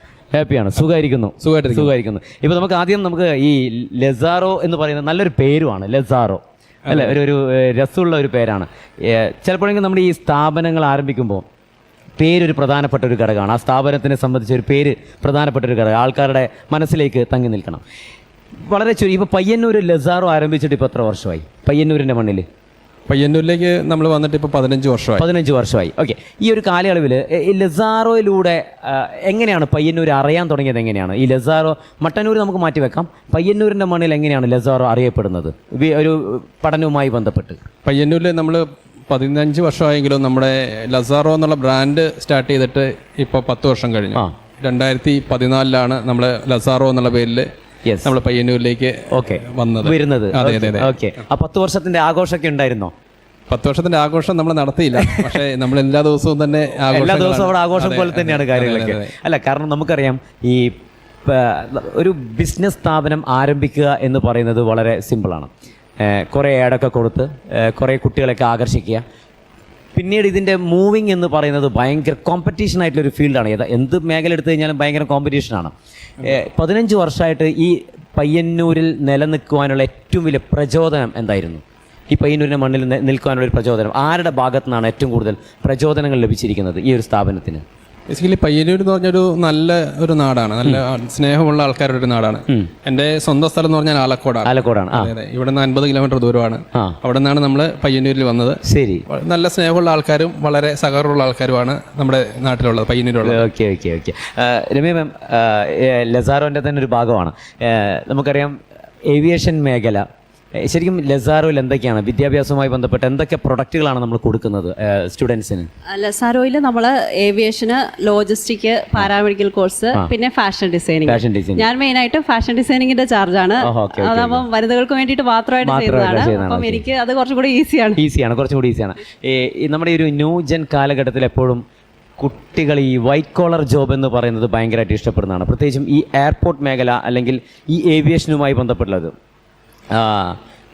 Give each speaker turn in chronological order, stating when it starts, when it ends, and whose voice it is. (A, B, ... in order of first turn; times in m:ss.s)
0:00.3-0:11.4 A
0:01.4-0:01.9 B
0:06.9-0:07.2 B
0:12.2-0:17.8 A
0:18.7-0:22.5 A
0:23.1-0:25.2 B
0:25.2-0:37.6 A
0:37.8-0:47.5 B
0:47.9-0:48.1 A
0:48.0-0:50.9 B
0:49.1-0:52.9 A
0:53.5-0:59.1 B
0:55.0-0:55.3 A
0:56.9-1:00.7 A
1:01.3-1:09.0 A
1:10.0-1:27.6 A
1:28.1-1:43.5 B
1:34.4-1:35.1 A
1:38.6-1:39.0 A
1:43.2-1:48.6 A
1:49.1-1:50.0 A
1:50.6-1:55.7 A
1:55.9-2:08.0 C
2:01.1-2:01.7 A
2:03.6-2:04.4 A
2:05.6-2:06.8 A
2:08.0-2:11.6 A
2:12.2-2:19.1 A
2:19.9-2:20.4 A